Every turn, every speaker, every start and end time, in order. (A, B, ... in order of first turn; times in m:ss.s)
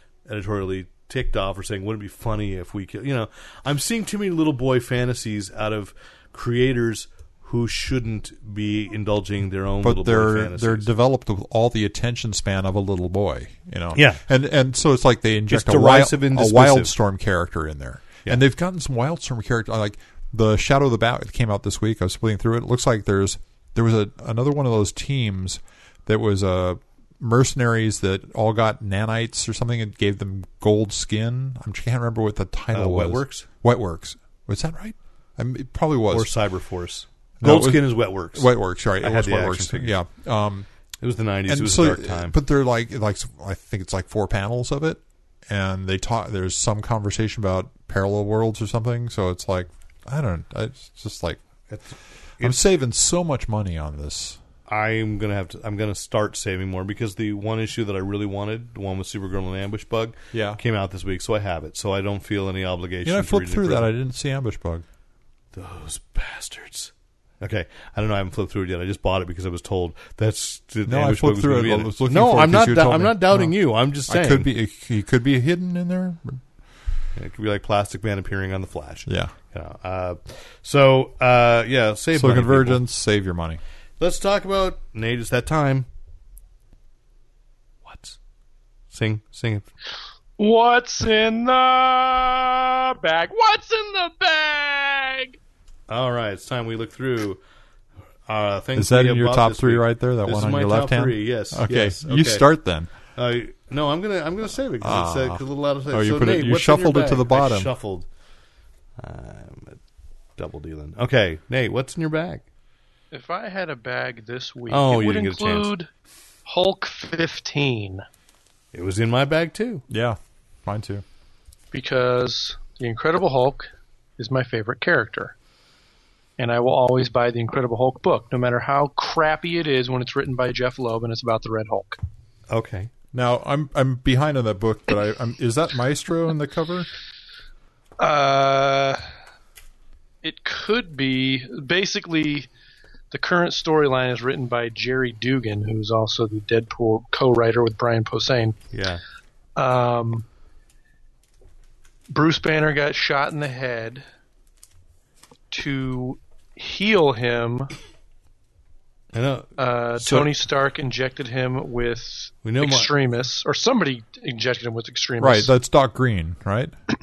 0:00.2-0:10.9 A
0:09.8-0:36.3 B
0:13.9-0:14.2 A
0:15.5-0:16.9 A
0:32.7-0:33.5 A
0:36.1-0:39.9 A
0:37.4-0:40.7 B
0:41.0-0:42.4 A
0:41.5-0:51.4 B
0:51.7-0:52.6 A
0:52.4-0:54.4 B
0:54.7-1:03.9 A
1:00.3-1:00.6 B
1:03.0-1:04.8 B
1:05.5-1:14.5 A
1:10.8-1:16.4 B
1:17.2-1:22.8 A
1:19.1-1:19.3 B
1:22.1-1:23.6 B
1:24.0-1:25.9 A
1:27.8-1:28.2 A
1:28.9-1:29.7 A
1:30.4-1:35.4 C
1:35.9-1:37.4 A
1:38.3-1:42.5 A
1:38.8-1:42.9 B
1:43.1-1:48.1 A
1:44.8-1:47.7 B
1:49.0-1:49.8 A
1:50.4-1:52.4 A
1:53.1-1:55.9 C
1:54.7-1:55.7 A
1:56.4-1:58.0 C
1:58.7-1:59.8 A
1:59.9-2:01.0 B
2:01.7-2:05.3 C
2:06.4-2:12.0 C
2:12.5-2:12.9 A
2:13.1-2:16.9 B
2:18.0-2:19.0 C
2:20.2-2:22.5 C
2:23.1-2:28.6 C
2:28.7-2:29.0 A
2:29.6-2:30.2 C
2:32.1-2:34.0 C
2:35.5-2:37.7 C
2:39.1-2:40.3 A
2:39.6-2:45.5 C
2:42.4-2:42.9 A
2:45.2-2:46.7 B